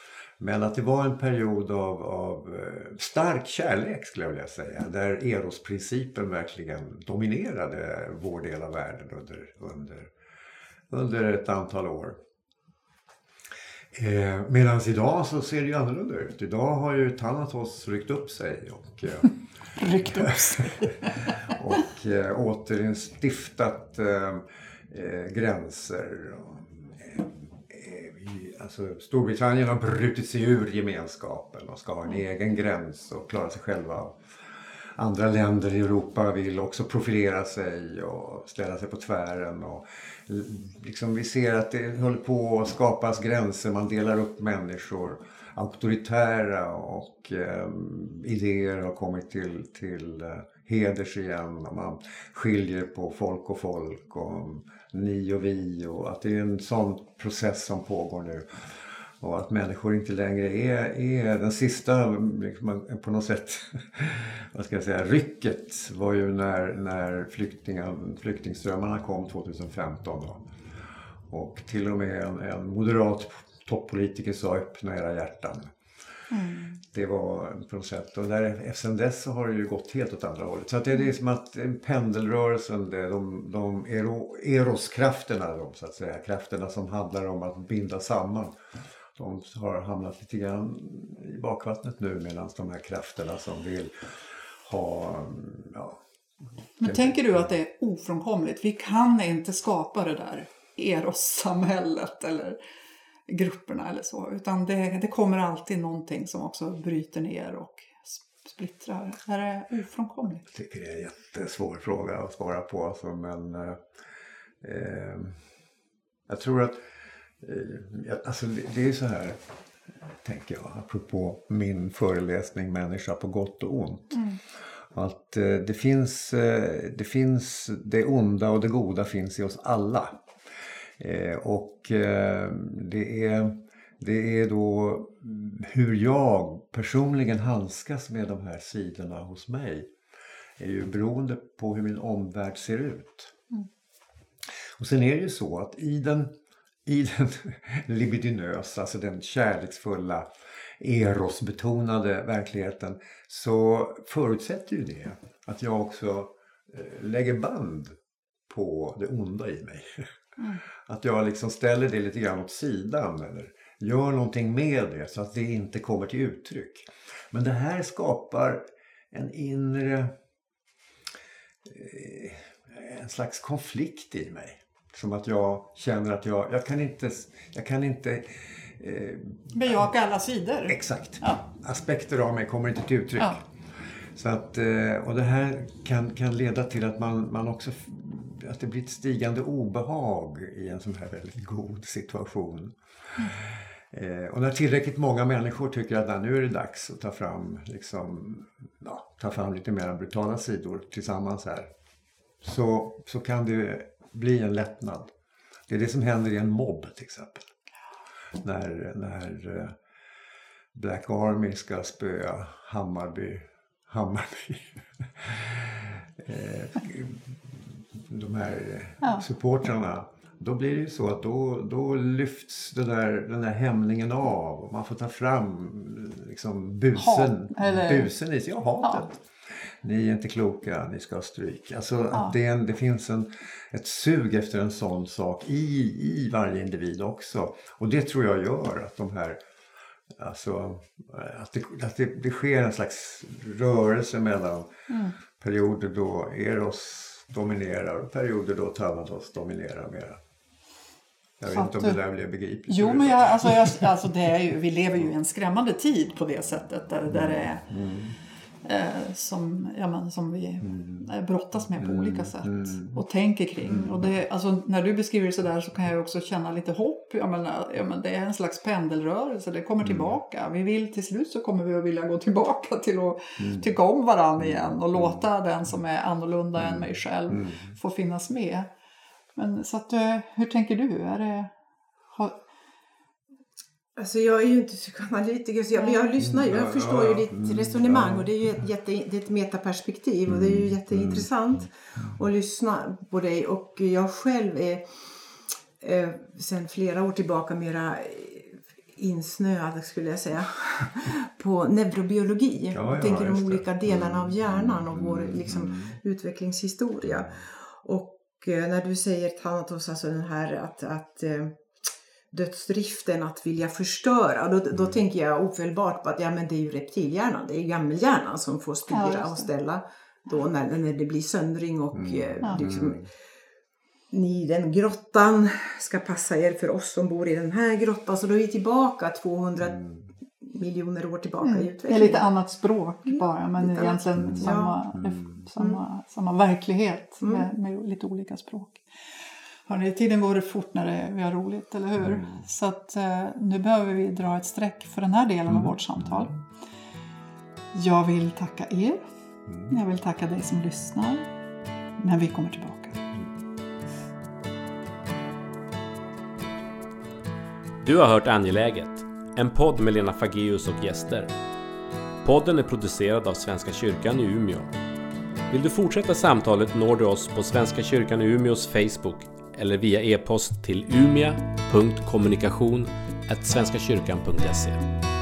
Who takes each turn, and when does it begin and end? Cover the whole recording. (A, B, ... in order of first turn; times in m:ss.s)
0:00.4-0:10.1 A
0:10.9-0:12.2 A
0:13.9-0:19.3 A
0:19.8-0:21.3 B
0:20.0-0:34.2 A
0:35.0-0:58.6 A
0:59.2-1:10.5 A
1:11.3-1:15.7 A
1:16.3-1:16.8 B
1:16.9-1:28.6 A
1:29.2-1:36.0 A
1:36.8-1:42.6 B
1:36.8-1:37.4 A
1:43.3-1:50.4 B
1:50.5-1:53.8 A
1:54.6-1:55.4 A
1:56.3-1:56.8 A
1:57.4-1:59.4 A
2:00.2-2:04.2 A
2:04.9-2:10.2 A
2:11.0-2:19.9 A
2:20.6-2:23.4 A
2:24.8-2:26.3 A
2:26.9-2:30.3 A
2:30.8-2:38.0 A
2:38.5-2:40.1 A
2:40.8-2:50.1 A
2:51.7-2:59.6 A
2:59.5-3:01.4 B
3:00.7-3:03.4 A
3:04.2-3:21.7 A
3:22.4-3:25.1 A
3:25.7-3:27.5 A
3:28.4-3:29.8 A
3:30.8-3:49.2 A
3:47.0-3:48.1 B
3:49.8-3:59.4 A
4:00.2-4:04.7 A
4:04.9-4:05.2 B
4:05.4-4:10.2 A
4:11.4-4:13.8 A
4:11.5-4:12.0 B
4:12.7-4:17.7 B
4:17.1-4:18.1 A
4:18.6-4:38.7 B
4:20.7-4:21.0 A
4:21.8-4:23.0 A
4:29.8-4:30.1 A
4:33.4-4:33.6 A
4:34.4-4:35.2 A
4:36.6-4:37.6 A
4:39.4-4:41.5 B
4:42.1-4:42.4 B
4:44.0-4:54.9 C
4:45.8-4:46.1 B
4:46.2-4:48.4 A
4:50.3-4:51.3 A
4:55.8-5:11.6 C
5:02.7-5:06.0 A
5:12.3-5:23.0 C
5:18.9-5:19.5 B
5:22.0-5:23.1 A
5:24.1-5:29.8 C
5:29.7-5:30.0 A
5:30.4-5:32.2 C
5:31.4-5:38.8 B
5:33.1-5:34.8 C
5:35.0-5:35.4 A
5:37.2-5:37.5 C
5:39.7-5:46.4 B
5:42.1-5:42.4 A
5:47.7-5:49.0 B
5:49.7-5:51.3 B
5:52.0-5:53.0 B
5:57.8-6:01.3 D
6:02.2-6:04.7 D
6:05.5-6:14.8 D